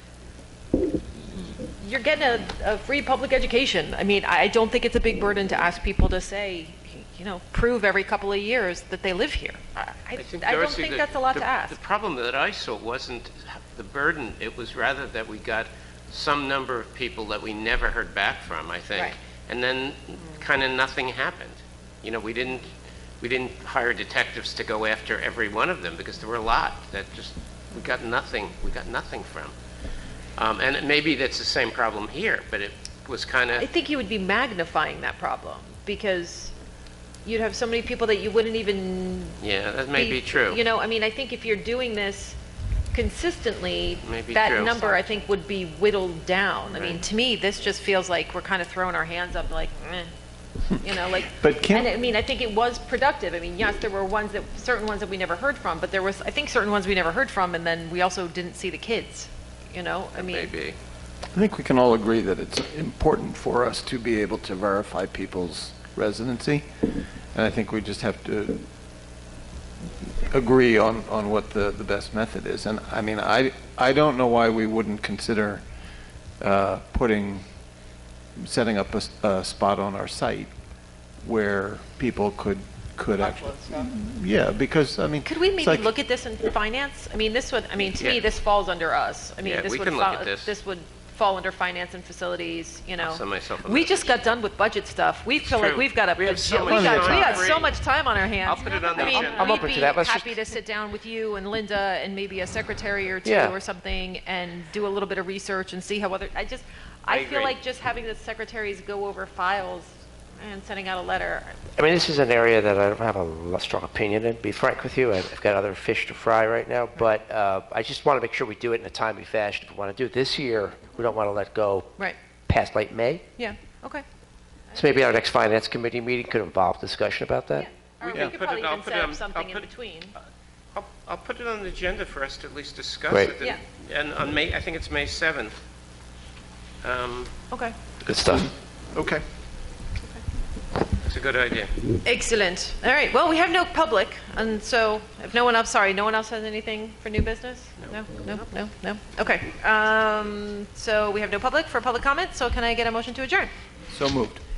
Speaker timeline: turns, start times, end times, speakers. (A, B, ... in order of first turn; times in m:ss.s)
0:00.9-0:11.8 A
0:10.2-0:22.7 B
0:23.2-0:29.6 B
0:30.4-0:33.7 B
0:33.6-0:36.5 A
0:37.2-0:39.4 A
0:39.4-0:40.6 B
0:39.9-0:42.4 A
0:42.9-0:50.1 A
0:44.0-0:45.0 B
0:46.7-0:47.0 B
0:50.8-1:00.5 A
0:50.9-0:51.9 C
1:00.2-1:00.8 B
1:01.3-1:08.6 C
1:10.0-1:15.6 C
1:16.4-1:17.4 C
1:18.4-1:20.5 C
1:21.2-1:25.9 C
1:25.2-1:51.6 A
1:28.0-1:28.2 B
1:29.4-1:30.6 B
1:33.0-1:34.3 B
1:35.4-1:37.8 B
1:36.5-1:37.5 C
1:38.4-1:39.7 B
1:38.9-1:40.5 D
1:43.2-1:43.5 D
1:47.1-1:47.5 B
1:51.8-2:01.9 D
2:02.5-2:03.2 D
2:03.4-2:04.0 A
2:04.7-2:07.7 D
2:07.6-2:10.1 A
2:08.0-2:09.7 B
2:10.7-2:15.5 B
2:13.1-2:13.3 D
2:16.8-2:17.3 B
2:18.0-2:18.5 D
2:18.2-2:19.2 C
2:21.0-2:21.7 B
2:22.0-2:33.5 A
2:27.8-2:28.1 B
2:33.9-2:34.4 C